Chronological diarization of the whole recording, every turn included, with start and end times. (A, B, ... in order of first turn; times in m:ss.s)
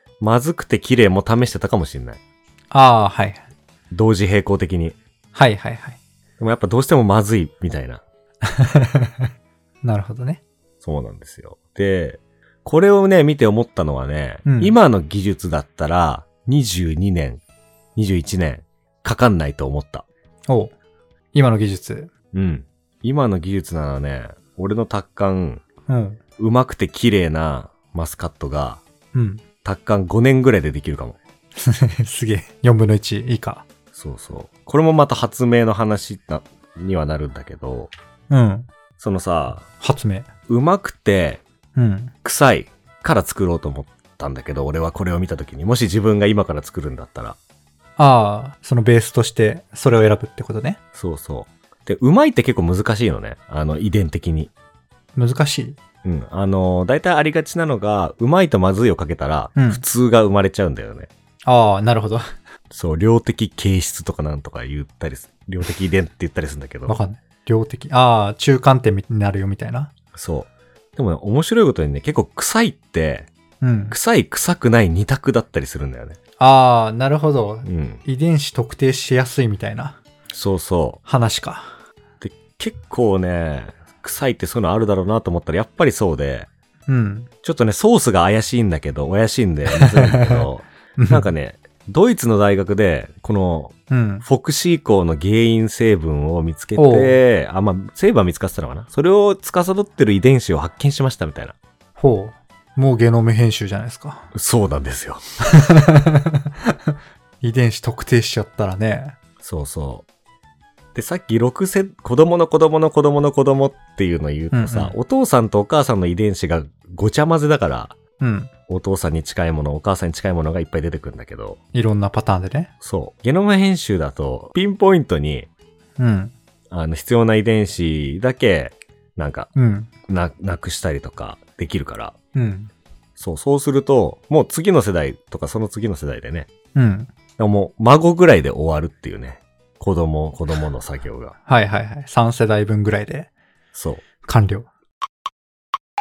0:00.2-0:02.2 A
0:02.7-0:03.4 B
0:03.9-0:05.0 A
0:05.3-0:06.0 B
0:06.4-0:08.0 A
0:08.4-0:09.3 B
0:09.8-0:10.4 B
0:10.8-0:17.4 A
0:14.4-0:14.8 B
0:18.0-0:20.0 A
0:20.5-0:20.7 B
0:21.3-0:22.1 B
0:22.3-0:25.6 A
0:25.9-0:26.2 B
0:26.4-0:28.8 A
0:29.1-0:29.4 B
0:29.6-0:31.2 A
0:31.6-0:33.6 B
0:33.9-0:37.9 A
0:38.3-0:38.7 B
0:39.0-0:39.6 A
0:39.8-0:40.3 B
0:40.5-0:41.4 A
0:41.7-0:42.1 B
0:42.2-0:47.4 A
0:48.0-0:50.8 B
0:50.9-0:54.5 A
0:55.2-0:55.8 B
0:56.0-1:01.1 A
0:59.6-0:59.8 B
1:01.4-1:02.2 B
1:02.7-1:07.0 A
1:06.9-1:09.9 B
1:10.1-1:13.3 A
1:13.6-1:14.0 B
1:13.9-1:16.2 A
1:16.4-1:20.0 B
1:17.6-1:18.0 A
1:20.3-1:21.0 A
1:21.0-1:21.8 B
1:22.2-1:26.5 A
1:26.9-1:27.3 B
1:27.4-1:33.7 A
1:29.7-1:31.3 B
1:33.9-1:34.2 B
1:34.2-1:41.5 A
1:36.8-1:37.2 B
1:42.0-1:44.3 B
1:44.3-1:45.2 A
1:45.5-1:49.2 B
1:49.4-1:50.0 A
1:50.9-1:58.0 A
1:54.5-1:55.0 B
1:58.2-1:58.5 B
1:58.7-2:01.6 A
2:01.7-2:02.7 B
2:02.8-2:05.5 A
2:06.0-2:06.3 B
2:06.7-2:09.5 A
2:09.5-2:09.9 B
2:10.1-2:12.1 A
2:12.3-2:12.7 B
2:13.2-2:16.5 A
2:16.7-2:17.1 B
2:17.4-2:21.3 A
2:21.4-2:23.3 B
2:23.7-2:24.0 A
2:24.2-2:24.7 B